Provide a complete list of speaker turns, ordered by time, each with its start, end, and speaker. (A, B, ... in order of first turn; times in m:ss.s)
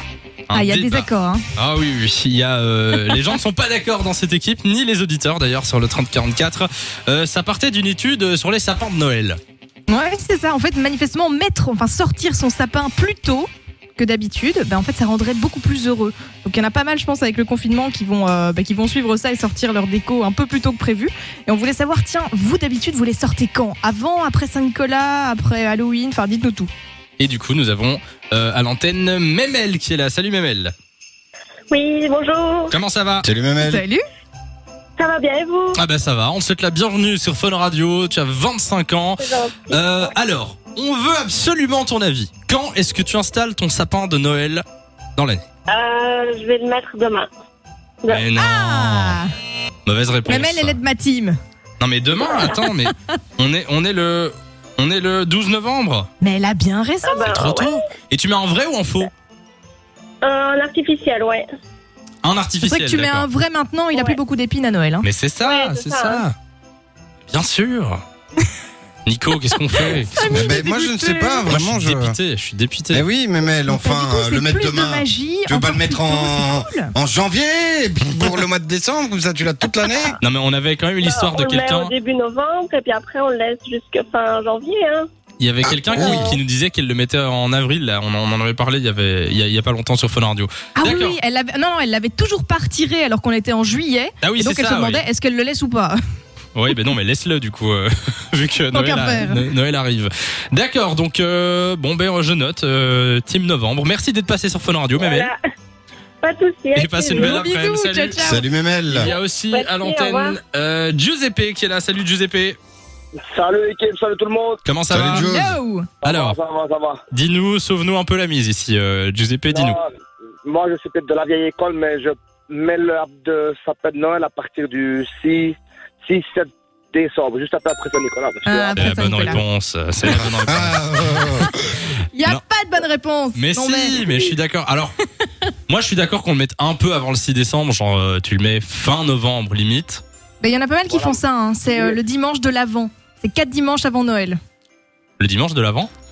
0:00.5-0:09.4 A
0:00.5-0:01.4 B
0:09.9-0:26.7 B
0:27.2-0:30.7 A
0:31.7-0:32.7 C
0:32.7-0:33.3 A
0:33.2-0:33.8 D
0:33.6-0:34.0 B
0:35.0-0:35.8 C
0:35.7-0:44.6 A
0:39.2-0:40.1 C
0:45.2-0:45.4 A
0:45.7-0:47.3 C
0:48.1-0:49.2 A
0:48.3-0:49.3 B
0:49.8-0:50.8 A
0:50.3-0:51.4 B
0:51.8-0:56.1 A
0:52.2-0:52.5 C
0:52.5-0:53.2 B
0:56.2-0:57.3 B
0:57.0-0:57.8 C
0:57.2-0:59.1 A
1:00.2-1:01.4 C
1:02.2-1:03.3 A
1:02.6-1:05.0 B
1:05.0-1:06.3 A
1:05.4-1:06.2 C
1:07.3-1:08.0 A
1:09.0-1:10.2 A
1:09.8-1:11.5 B
1:10.2-1:12.2 D
1:11.5-1:13.0 A
1:12.9-1:20.2 D
1:13.6-1:16.9 B
1:20.2-1:21.9 A
1:21.0-1:25.1 C
1:25.4-1:31.2 A
1:25.6-1:26.4 D
1:25.9-1:26.4 C
1:30.8-1:36.0 B
1:34.2-1:35.0 A
1:36.5-1:45.3 A
1:38.7-1:39.4 B
1:45.0-1:45.4 C
1:46.2-1:47.4 C
1:46.7-1:48.3 A
1:47.1-1:48.4 B
1:48.2-1:49.1 D
1:48.9-1:52.6 A
1:49.5-1:50.4 C
1:53.3-1:54.6 E
1:54.6-1:55.2 A
1:54.9-1:55.6 D
1:55.1-1:55.9 B
1:56.0-1:57.0 E
1:56.0-1:56.4 A
1:57.1-1:59.8 A
1:59.5-2:09.3 E
2:08.4-2:09.4 B
2:08.8-2:11.1 A
2:10.0-2:11.8 D
2:11.4-2:14.3 B
2:13.3-2:14.9 A
2:15.7-2:20.0 A
2:20.4-2:24.4 B
2:20.9-2:22.0 E
2:25.2-2:25.9 A